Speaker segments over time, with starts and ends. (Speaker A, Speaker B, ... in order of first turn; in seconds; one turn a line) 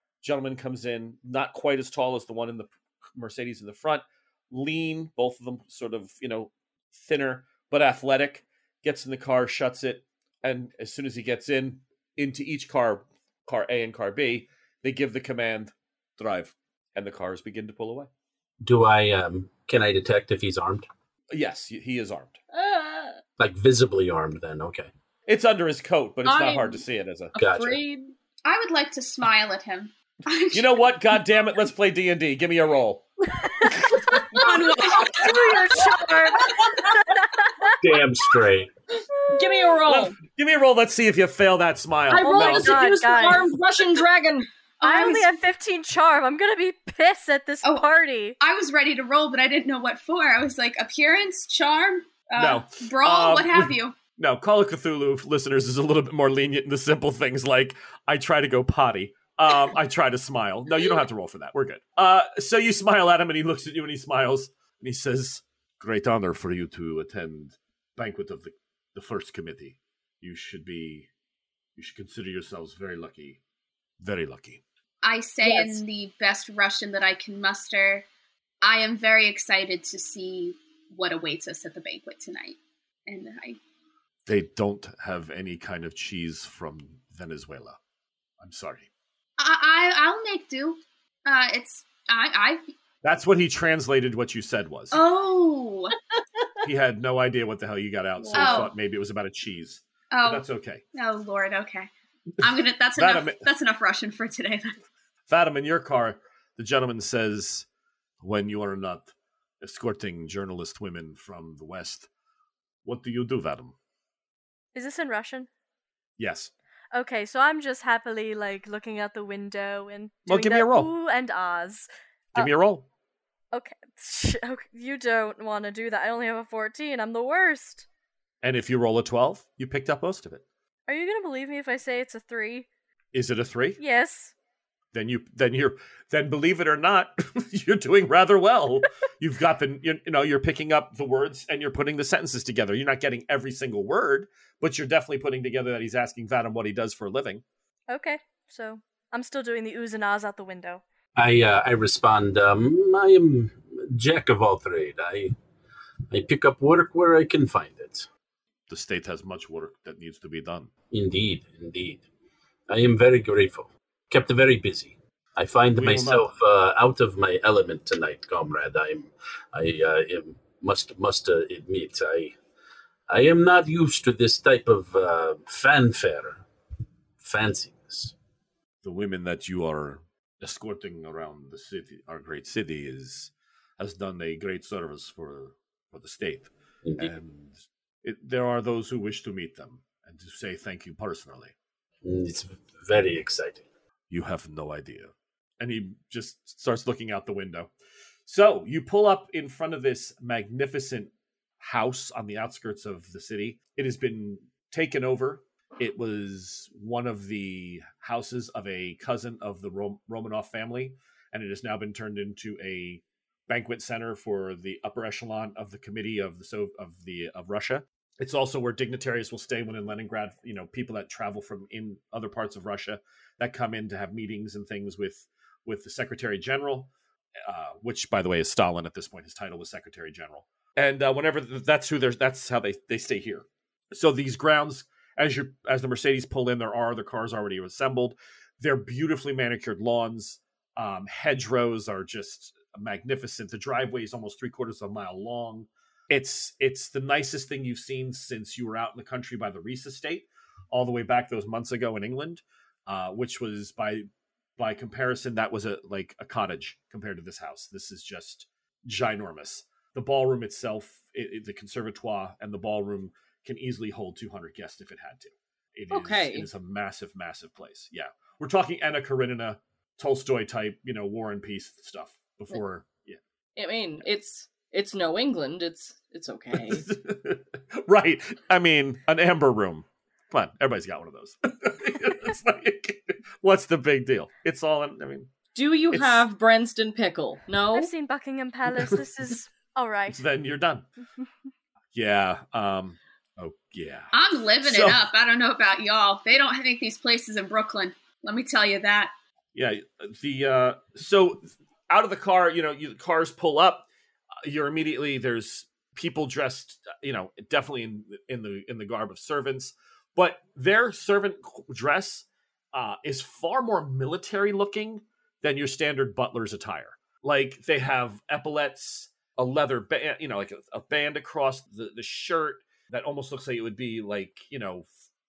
Speaker A: 0.2-18.1
Speaker B: 18.6-20.9
Speaker A: 21.3-22.4
Speaker C: 22.5-23.2
Speaker B: 23.4-24.9
Speaker A: 25.3-27.3
Speaker C: 26.2-28.1
Speaker B: 27.4-27.8
Speaker D: 28.4-30.8
Speaker A: 30.5-33.0
Speaker E: 33.5-34.1
Speaker C: 34.0-35.2
Speaker D: 34.3-35.3
Speaker E: 34.8-37.7
Speaker A: 34.8-35.3
Speaker C: 35.8-36.6
Speaker B: 37.8-38.7
Speaker C: 39.2-40.1
Speaker A: 39.9-42.8
Speaker C: 42.1-44.5
Speaker E: 42.2-43.5
Speaker D: 44.8-45.4
Speaker E: 44.8-48.4
Speaker D: 47.6-47.9
Speaker D: 48.4-53.9
Speaker A: 52.4-71.1
Speaker A: 71.8-73.4
Speaker A: 74.0-74.6
Speaker D: 75.0-78.0
Speaker C: 75.5-75.8
Speaker D: 78.6-83.6
Speaker A: 84.3-87.8
Speaker A: 88.4-88.9
Speaker D: 89.4-92.7
Speaker A: 93.0-95.0
Speaker D: 94.9-96.0
Speaker A: 96.6-100.8
Speaker D: 98.3-98.7
Speaker D: 100.1-101.9
Speaker D: 102.4-104.7
Speaker A: 103.0-103.4
Speaker A: 105.3-107.7
Speaker A: 108.2-112.1
Speaker A: 112.8-113.7
Speaker E: 114.7-115.5
Speaker A: 116.2-116.5
Speaker E: 116.9-122.5
Speaker A: 120.3-120.9
Speaker A: 122.3-122.8
Speaker E: 123.5-127.8
Speaker A: 128.4-130.4
Speaker E: 130.9-132.7
Speaker A: 133.1-133.8
Speaker E: 133.8-134.3
Speaker A: 134.9-147.4
Speaker E: 147.9-150.8
Speaker B: 151.2-155.3
Speaker B: 156.1-158.1
Speaker A: 158.7-160.7
Speaker B: 160.9-162.0
Speaker B: 162.7-172.3
Speaker A: 165.7-166.3
Speaker B: 173.1-176.4
Speaker B: 177.2-178.1
Speaker A: 178.8-191.5
Speaker B: 186.8-187.1
Speaker B: 192.0-193.7
Speaker A: 194.1-197.7
Speaker A: 198.3-226.9
Speaker A: 227.4-254.1
Speaker A: 254.6-273.2
Speaker C: 265.9-266.5
Speaker C: 273.6-276.8
Speaker A: 276.6-285.3
Speaker C: 285.5-287.9
Speaker A: 285.9-286.2
Speaker E: 287.7-290.2
Speaker A: 290.1-290.9
Speaker A: 291.9-295.0
Speaker D: 294.1-299.1
Speaker A: 299.5-303.9
Speaker A: 304.4-324.9